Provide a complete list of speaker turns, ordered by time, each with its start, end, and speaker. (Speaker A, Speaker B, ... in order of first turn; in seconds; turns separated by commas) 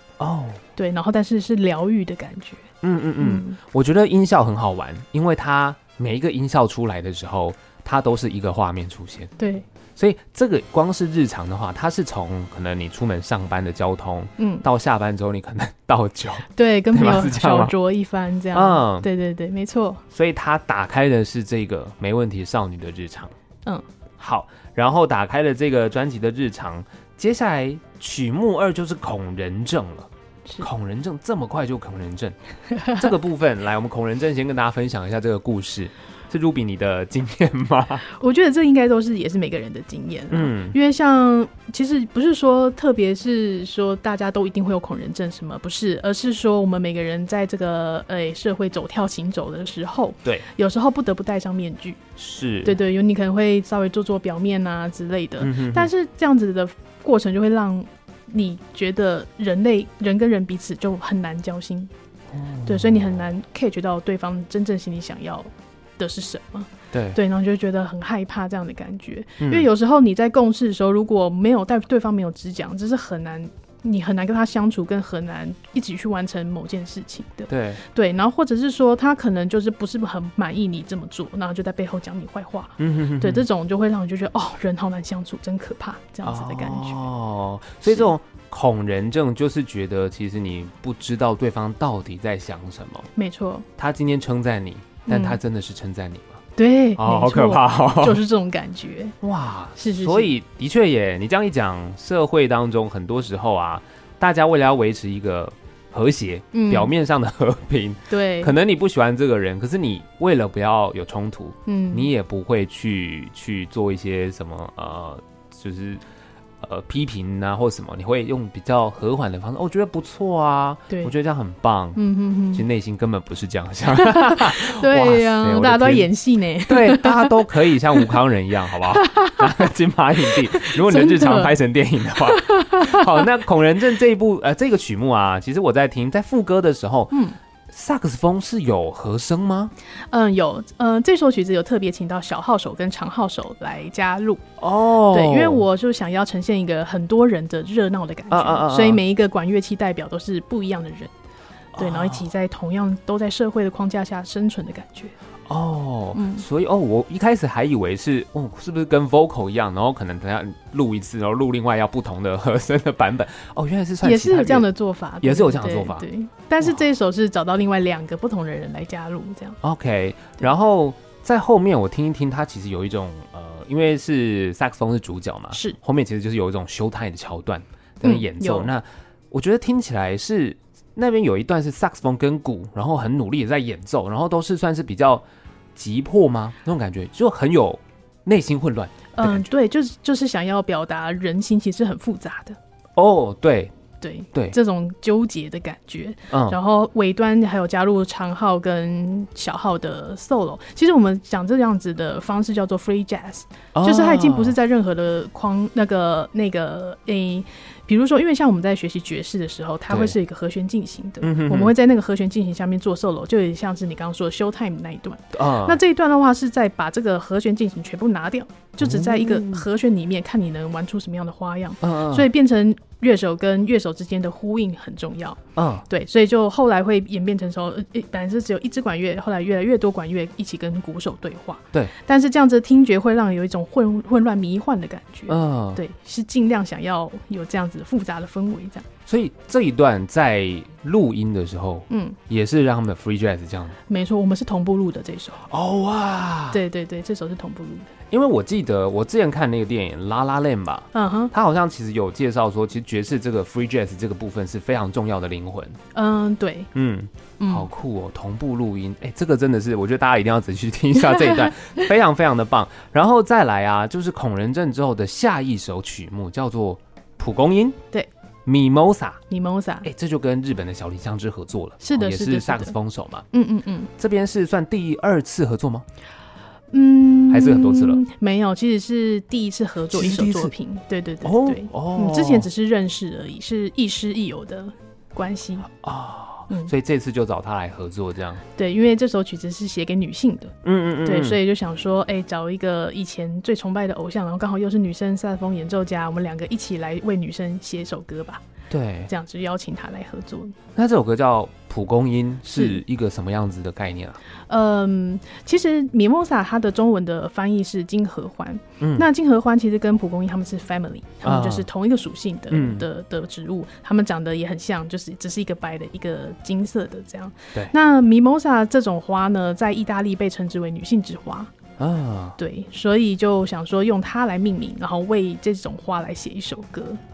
Speaker A: 0.2-0.6, Speaker B: 0.8-2.7, Speaker A: 2.8-9.3, Speaker B: 3.2-3.6, Speaker B: 9.4-9.7, Speaker A: 10.0-17.7, Speaker B: 14.4-14.6, Speaker B: 16.6-20.0, Speaker A: 18.5-19.1, Speaker A: 20.1-23.3, Speaker A: 24.2-32.4, Speaker B: 32.7-33.0, Speaker A: 32.9-38.1, Speaker B: 38.1-52.0, Speaker A: 40.3-40.8, Speaker A: 52.2-52.8, Speaker B: 52.6-61.9, Speaker A: 55.4-55.9, Speaker A: 62.3-63.2, Speaker B: 62.7-87.0, Speaker A: 66.9-67.2, Speaker A: 69.4-69.7, Speaker A: 77.5-77.8, Speaker A: 82.8-83.4, Speaker A: 86.2-93.1, Speaker B: 93.2-93.7, Speaker A: 93.8-96.4, Speaker B: 95.1-95.4, Speaker B: 96.6-99.2, Speaker A: 97.0-98.2, Speaker A: 99.2-116.0, Speaker B: 99.8-100.3, Speaker B: 106.5-106.9, Speaker B: 108.1-108.5, Speaker B: 111.7-112.1, Speaker A: 116.6-122.0, Speaker B: 122.0-122.7, Speaker A: 122.5-126.1, Speaker B: 124.0-127.4, Speaker A: 126.7-137.2, Speaker B: 128.9-129.7, Speaker B: 130.5-131.5, Speaker B: 132.3-133.3, Speaker B: 137.1-137.4, Speaker A: 137.7-139.7, Speaker B: 140.1-144.4, Speaker A: 144.6-145.6, Speaker B: 145.1-151.1, Speaker A: 148.3-149.0, Speaker A: 151.8-152.2, Speaker B: 151.8-155.1, Speaker A: 155.5-164.7, Speaker B: 156.1-156.4, Speaker B: 164.0-169.6, Speaker A: 165.2-166.0, Speaker A: 169.6-185.2, Speaker B: 175.5-175.8, Speaker B: 178.0-178.7, Speaker A: 185.8-189.5, Speaker B: 189.1-192.6, Speaker A: 193.0-193.7, Speaker B: 194.0-238.9, Speaker A: 196.3-196.6, Speaker A: 203.7-204.6, Speaker A: 209.9-210.2, Speaker A: 211.2-211.7, Speaker A: 215.3-215.8, Speaker A: 218.8-219.7, Speaker A: 221.8-222.3, Speaker A: 225.6-225.8, Speaker A: 235.3-235.8, Speaker A: 239.1-243.8, Speaker B: 241.9-242.2, Speaker B: 243.9-245.4, Speaker A: 245.5-246.6, Speaker B: 246.5-247.9, Speaker A: 248.1-255.8, Speaker B: 250.9-251.3, Speaker B: 255.9-256.7, Speaker A: 256.7-267.8, Speaker B: 257.4-257.7, Speaker A: 268.5-269.2, Speaker B: 269.3-269.9, Speaker A: 269.8-273.2, Speaker B: 271.8-272.8, Speaker B: 273.3-273.9, Speaker A: 274.0-275.9, Speaker B: 276.7-285.7, Speaker A: 277.3-278.0, Speaker A: 279.9-280.5, Speaker A: 281.2-282.5, Speaker A: 285.7-288.4, Speaker B: 288.6-298.4, Speaker A: 290.6-291.4, Speaker A: 298.7-299.1, Speaker B: 299.1-300.6, Speaker A: 300.8-304.2, Speaker B: 302.6-302.8, Speaker B: 304.5-321.5, Speaker A: 308.8-309.1, Speaker A: 311.2-311.7, Speaker A: 312.5-312.9, Speaker A: 321.8-322.4, Speaker B: 322.4-327.0